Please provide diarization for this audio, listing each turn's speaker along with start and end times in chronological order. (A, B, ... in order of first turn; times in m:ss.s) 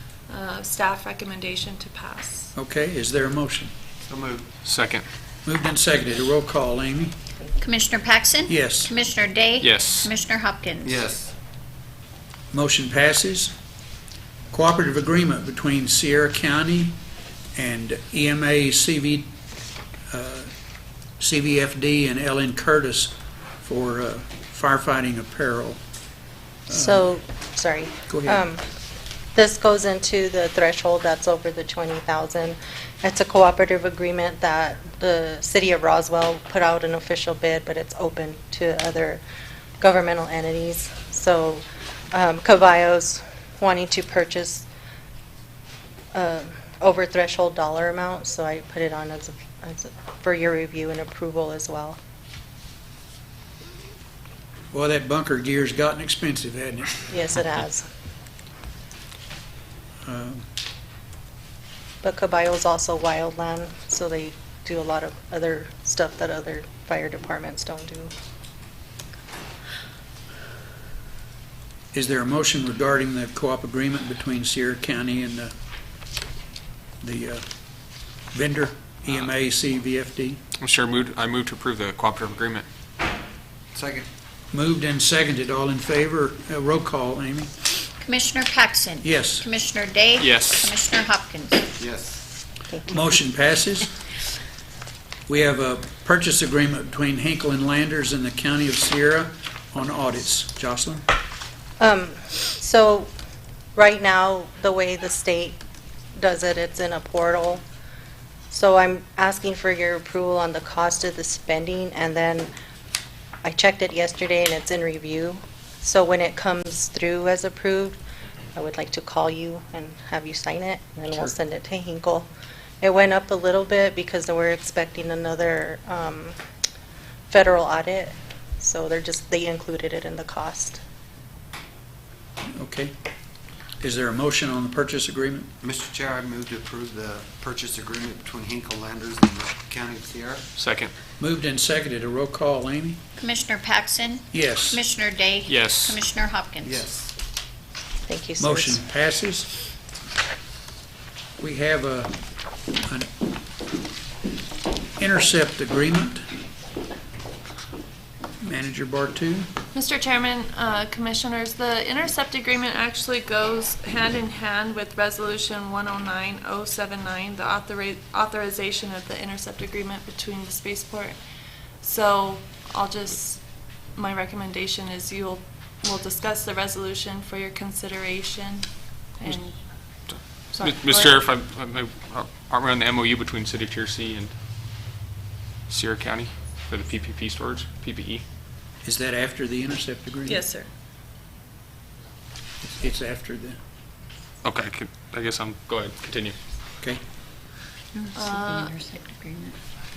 0:00.3-0:02.5 A
0:02.6-0:03.7 B
0:04.1-0:04.5 C
0:04.6-0:05.0 D
0:05.4-0:07.2 B
0:07.6-0:11.0 E
0:08.5-0:08.9 B
0:09.6-0:10.1 D
0:10.8-0:11.3 C
0:12.5-0:13.6 B
0:14.5-0:17.0 B
0:17.6-0:19.3 B
0:20.1-0:20.5 B
0:21.2-0:25.8 B
0:26.7-0:27.1 B
0:26.7-0:28.6 F
0:28.1-0:28.4 B
0:29.4-0:39.2 F
0:39.8-0:44.7 F
0:46.1-0:52.0 F
0:54.7-0:57.2 B
0:57.1-0:57.9 F
1:00.0-1:00.5 B
1:02.0-1:08.1 F
1:11.9-1:15.5 B
1:17.0-1:17.4 B
1:18.3-1:20.4 B
1:20.6-1:22.6 D
1:23.7-1:24.1 C
1:24.5-1:27.5 B
1:28.0-1:31.7 E
1:29.0-1:29.4 B
1:30.2-1:30.7 D
1:31.8-1:32.2 C
1:32.7-1:33.1 F
1:32.9-1:33.9 B
1:35.3-1:41.1 B
1:41.8-1:43.1 F
1:43.8-1:45.6 F
1:46.2-1:47.6 F
1:48.5-1:52.5 F
1:53.4-1:58.0 F
1:58.6-2:02.3 F
2:02.8-2:06.4 F
2:07.3-2:10.8 F
2:12.5-2:13.0 B
2:13.8-2:15.5 B
2:15.6-2:20.4 C
2:20.6-2:20.9 D
2:21.2-2:23.0 B
2:23.2-2:26.8 E
2:24.3-2:24.8 B
2:25.5-2:26.0 D
2:26.6-2:27.1 C
2:28.1-2:28.8 F
2:28.4-2:29.5 B
2:31.4-2:32.2 B
2:32.8-2:33.1 B
2:35.0-2:36.3 B
2:38.4-2:39.5 B
2:39.7-2:51.2 A
2:51.8-3:01.1 A
3:00.5-3:04.4 D
3:05.7-3:08.2 D
3:08.8-3:10.4 B
3:10.3-3:10.7 A
3:12.6-3:13.6 B
3:14.4-3:16.4 D
3:17.9-3:19.6 E
3:18.2-3:18.8 A